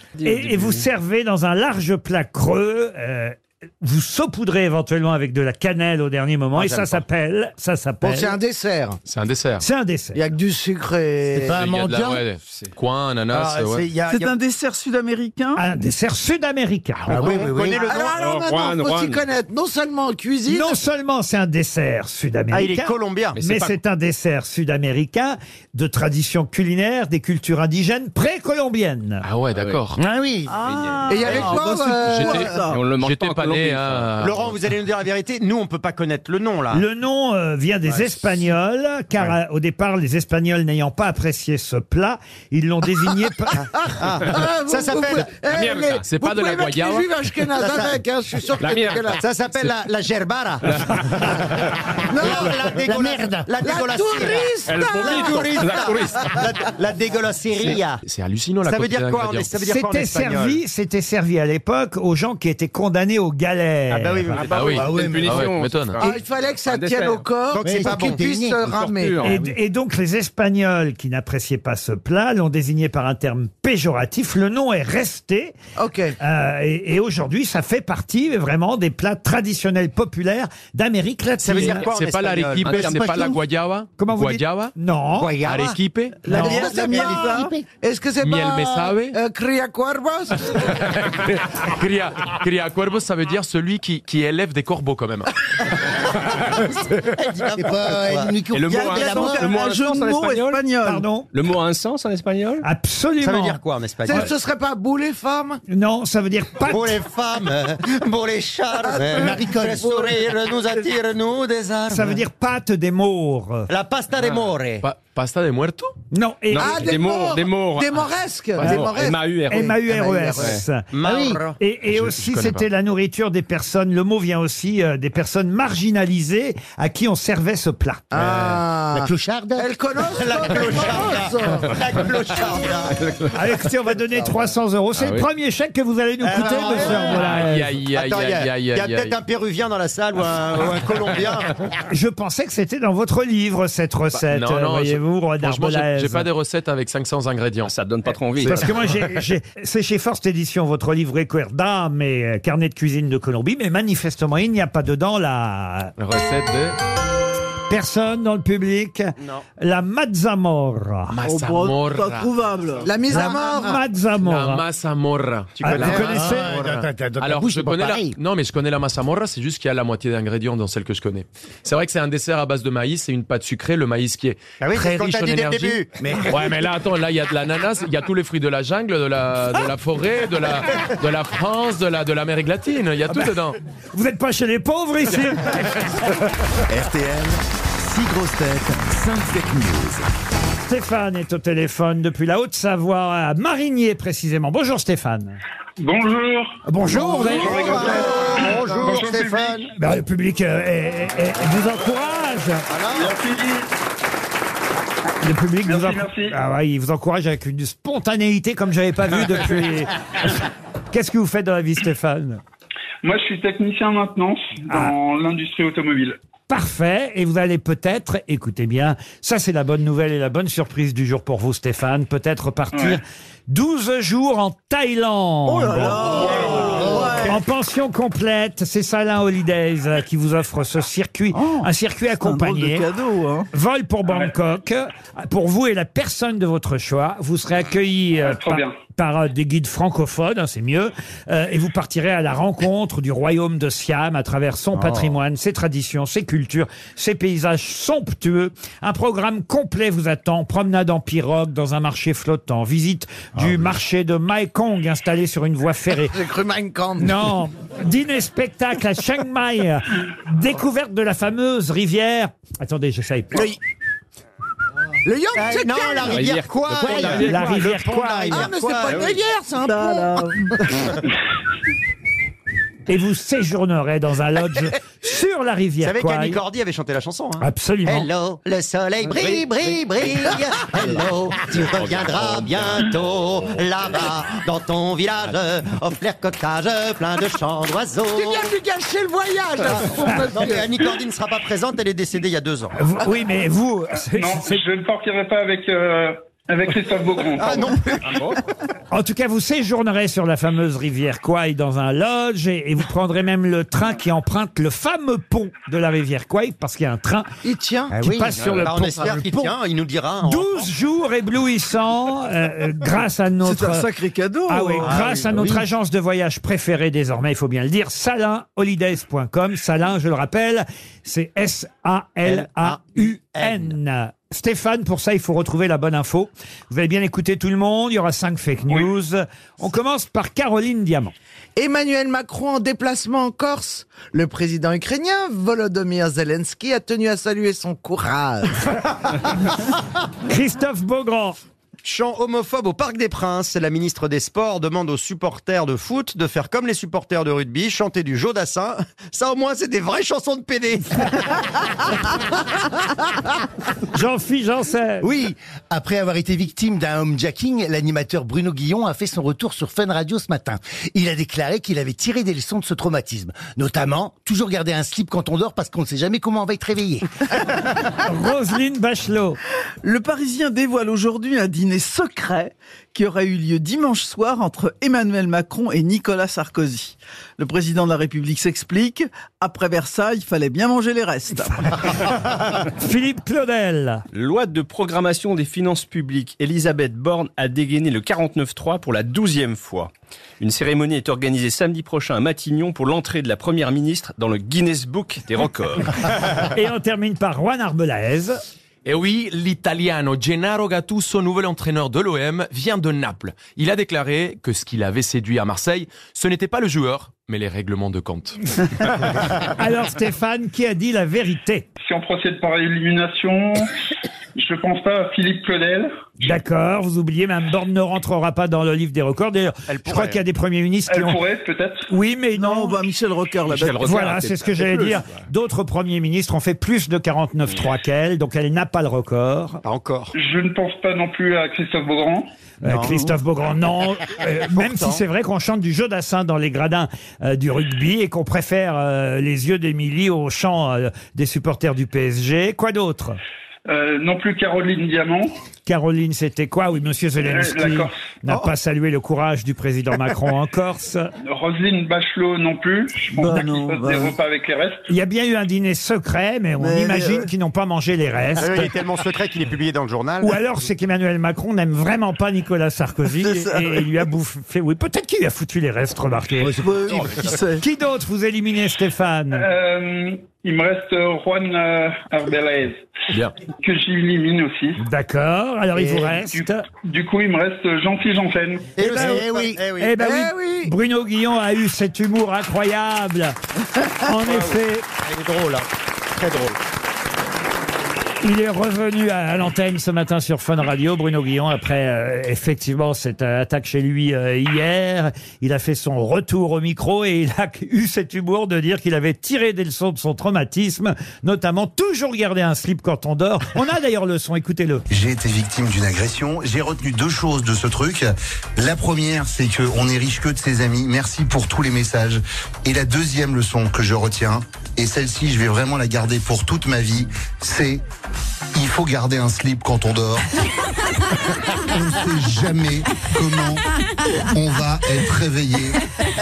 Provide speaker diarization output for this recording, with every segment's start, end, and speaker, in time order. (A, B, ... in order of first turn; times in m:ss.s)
0:00.2-0:00.8 A
0:00.2-0:08.4 B
0:06.6-0:07.0 C
0:08.0-0:09.0 D
0:09.1-0:09.6 E
0:09.6-0:10.2 B
0:10.2-0:11.6 D
0:11.3-0:12.2 F
0:11.5-0:13.9 E
0:13.3-0:14.3 C
0:14.1-0:15.6 G
0:15.6-0:17.3 B
0:17.0-0:18.0 F
0:17.1-0:18.2 C
0:17.8-0:20.8 D
0:18.2-0:19.3 A
0:20.5-0:29.2 B
0:22.5-0:23.4 C
0:23.4-0:23.7 A
0:29.2-0:30.0 E
0:29.5-0:29.8 A
0:30.0-0:30.5 F
0:30.5-0:32.8 G
0:30.6-0:31.6 A
0:31.1-0:32.5 D
0:31.3-0:34.5 E
0:32.6-0:34.1 A
0:34.2-0:36.8 C
0:36.7-0:43.6 B
0:43.7-0:49.2 D
0:44.0-0:45.3 C
0:45.5-0:46.0 A
0:46.0-0:47.2 E
0:47.6-0:48.0 C
0:48.6-0:49.2 A
0:49.2-0:51.3 C
0:52.1-0:52.5 D
0:52.1-0:58.0 C
0:52.8-0:53.5 F
0:53.6-0:55.5 D
0:54.7-0:56.2 A
0:57.6-0:59.5 E
0:58.6-1:00.6 C
0:59.6-1:04.5 B
1:03.9-1:04.9 C
1:04.3-1:07.3 A
1:04.5-1:06.0 E
1:04.7-1:05.5 F
1:06.0-1:09.3 D
1:07.5-1:08.2 C
1:07.6-1:08.7 F
1:08.6-1:09.5 A
1:09.2-1:15.6 B
1:15.8-1:16.2 D
1:16.2-1:21.8 B
1:21.4-1:23.0 C
1:21.5-1:24.7 E
1:22.6-1:23.4 F
1:22.9-1:23.4 A
1:24.0-1:25.3 B
1:25.2-1:27.6 F
1:25.4-1:26.4 E
1:26.3-1:30.7 D
1:26.3-1:26.7 B
1:26.6-1:27.4 G
1:28.2-1:29.2 E
1:30.5-1:35.3 E
1:36.5-1:38.4 C
1:37.6-1:39.6 F
1:38.6-1:40.6 A
1:38.6-1:39.4 E
1:39.0-1:41.1 G
1:40.8-1:41.3 B
1:41.3-1:42.6 A
1:42.6-1:43.6 B
1:43.2-1:44.3 C
1:44.0-1:45.6 D
1:45.7-1:47.0 B
1:46.7-1:52.2 C
1:48.8-1:50.1 D
1:49.0-1:49.9 F
1:51.9-1:53.7 B
1:53.7-1:54.8 C
1:54.8-1:55.9 E
1:56.1-1:56.9 B
1:56.6-2:00.6 D
1:56.6-1:57.9 A
1:58.6-1:58.9 E
1:58.6-1:59.7 A
1:59.5-2:00.8 B
2:00.9-2:01.6 C
2:01.0-2:01.4 F
2:01.6-2:08.2 B
2:01.9-2:02.6 E
2:08.1-2:11.8 D
2:08.9-2:09.7 F
2:10.1-2:13.0 C
2:13.0-2:13.3 A
2:13.3-2:17.7 B
2:15.0-2:15.2 E
2:16.2-2:17.3 C
2:16.9-2:19.2 E
2:17.9-2:21.5 C
2:21.9-2:26.3 B
2:24.2-2:27.7 E
2:27.6-2:28.7 A
2:28.4-2:35.9 B
2:36.0-2:36.8 E
2:37.7-2:41.1 B
2:39.2-2:39.4 C
2:41.1-2:42.3 E
2:41.2-2:42.9 G
2:42.8-2:43.8 D
2:43.1-2:44.6 B
2:43.1-2:43.6 F
2:44.2-3:03.6 E
2:45.6-2:46.6 B
2:45.7-2:48.2 F
2:54.6-2:55.9 C
2:56.0-2:56.5 F
3:03.9-3:05.8 B
3:06.7-3:10.1 H
3:10.7-3:15.4 B
3:15.8-3:19.7 I
3:16.6-3:17.8 B
3:16.9-3:19.7 C
3:19.8-3:22.7 B
3:22.7-3:23.1 C
3:22.9-3:23.7 I
3:25.2-3:32.4 B
3:25.6-3:26.4 I
3:33.0-3:36.2 I
3:34.7-3:35.0 B
3:36.5-3:52.9 B
3:42.7-3:43.0 I
3:45.5-3:47.4 G
3:46.2-3:46.8 I
3:46.2-3:47.2 F
3:46.7-3:47.2 D
3:51.3-3:53.5 G
3:53.5-4:16.2 B
3:58.2-3:58.8 I
4:16.1-4:17.2 D
4:17.0-4:23.5 B
4:25.0-4:26.3 D
4:25.4-4:29.2 C
4:26.0-4:27.6 A
4:27.0-4:28.5 B
4:28.3-4:30.4 D
4:28.9-4:30.5 G
4:32.9-4:36.4 B
4:35.8-4:48.5 C
4:37.4-4:38.1 B
4:41.7-4:42.7 A
4:48.1-4:50.7 D
4:50.3-4:52.8 C
4:52.8-4:54.6 B
4:54.1-4:57.8 I
4:57.4-4:58.2 C
4:58.0-4:58.4 A
4:58.9-5:07.3 B
5:07.4-5:08.0 D
5:07.9-5:08.4 F
5:08.0-5:09.5 B
5:08.4-5:08.7 A
5:08.6-5:10.7 C
5:10.2-5:13.9 B
5:13.4-5:15.1 G
5:14.5-5:31.1 B
5:14.8-5:15.5 C
5:15.2-5:15.6 F
5:22.2-5:23.8 C
5:31.6-5:38.7 D
5:40.3-5:41.4 B
5:41.8-5:51.2 C
5:53.9-5:55.1 B
5:55.0-6:07.0 F
6:08.0-6:09.4 B
6:09.8-6:21.9 G
6:22.6-6:24.0 B
6:24.1-6:35.9 A
6:36.4-6:38.4 B
6:38.8-6:48.4 E
6:49.5-6:51.7 B
6:51.8-6:53.7 I
6:54.4-6:55.9 I
6:56.2-7:01.2 B
6:59.7-7:00.2 C
7:00.9-7:01.9 I
7:01.9-7:02.8 B
7:02.4-7:04.1 G
7:03.6-7:05.0 A
7:03.8-7:09.6 B
7:09.6-7:10.1 C
7:10.2-7:12.3 I
7:12.6-7:23.2 B
7:12.6-7:13.0 C
7:12.9-7:13.1 G
7:14.5-7:15.0 C
7:23.7-7:25.3 I
7:25.7-7:31.1 B
7:27.2-7:28.0 I
7:31.3-7:34.9 I
7:33.1-7:34.2 G
7:34.9-7:38.7 B
7:36.6-7:37.3 G
7:38.4-7:40.3 C
7:40.2-7:46.6 B
7:43.2-7:43.9 G
7:46.4-7:47.3 F
7:46.5-7:47.6 G
7:47.6-7:49.5 B
7:49.3-7:52.9 I
7:53.6-7:54.8 I
7:54.8-7:56.6 B
7:55.8-7:56.1 D
7:56.8-7:58.7 I
7:58.8-8:00.0 C
7:58.8-7:59.2 B
7:58.8-7:59.6 F
7:59.8-8:03.4 B
8:00.0-8:00.7 D
8:04.0-8:04.8 B
8:04.2-8:06.6 C
8:08.2-8:24.8 B
8:24.9-8:37.8 J
8:38.6-8:40.3 J
8:41.7-8:43.6 J
8:44.3-8:45.8 J